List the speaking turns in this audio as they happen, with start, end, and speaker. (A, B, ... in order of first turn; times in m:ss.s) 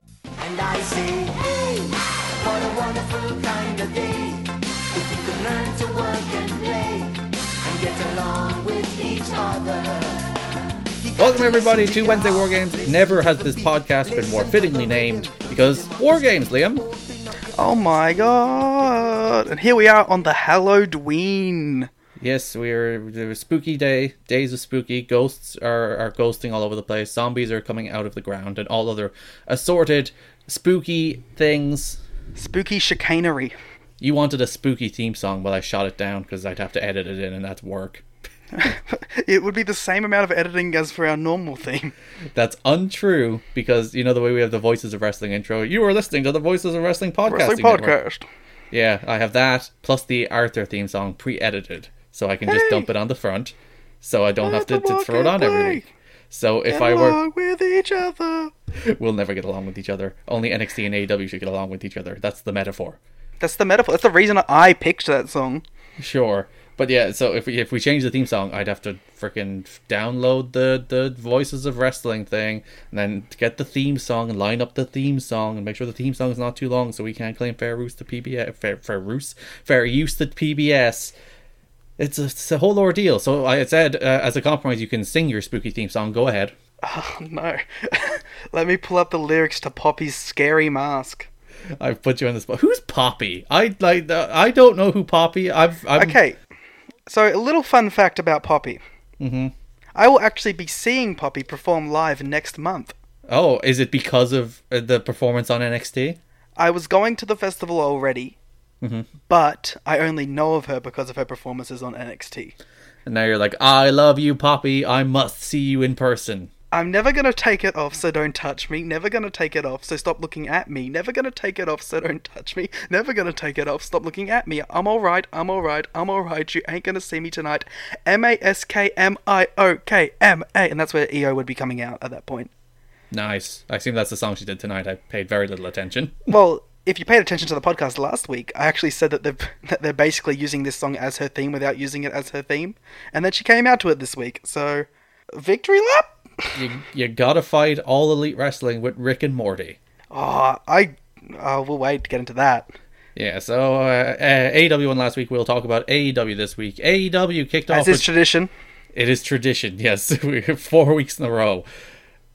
0:00.6-0:01.9 A
0:02.5-0:04.5 A
0:05.0-0:07.2 A
0:07.8-0:10.2 A
0:11.2-0:16.9 B
0:17.5-0:21.9 C
0:22.2-0:32.0 B
0:32.4-0:33.6 C
0:34.0-0:38.0 B
0:38.5-0:41.9 C
0:42.3-0:48.0 B
0:47.3-0:48.2 C
0:48.7-0:57.2 B
0:52.5-0:52.9 C
0:54.4-0:55.9 C
0:56.7-0:58.5 C
0:58.8-1:03.0 B
1:03.4-1:05.6 C
1:06.0-1:21.1 B
1:22.0-1:26.6 B
1:26.8-1:31.3 C
1:31.8-1:36.2 B
1:36.0-1:36.4 C
1:37.1-1:38.8 C
1:39.2-1:39.5 B
1:40.0-1:42.9 C
1:43.3-1:46.2 B
1:46.6-1:48.4 C
1:48.8-1:49.1 B
1:49.3-1:52.6 C
1:53.1-1:56.5 B
1:56.7-2:12.5 C
2:13.1-2:16.3 B
2:16.3-2:26.6 C
2:26.6-2:29.8 B
2:30.1-2:32.7 C
2:33.2-2:38.1 B
2:37.7-2:38.5 C
2:38.9-2:41.7 B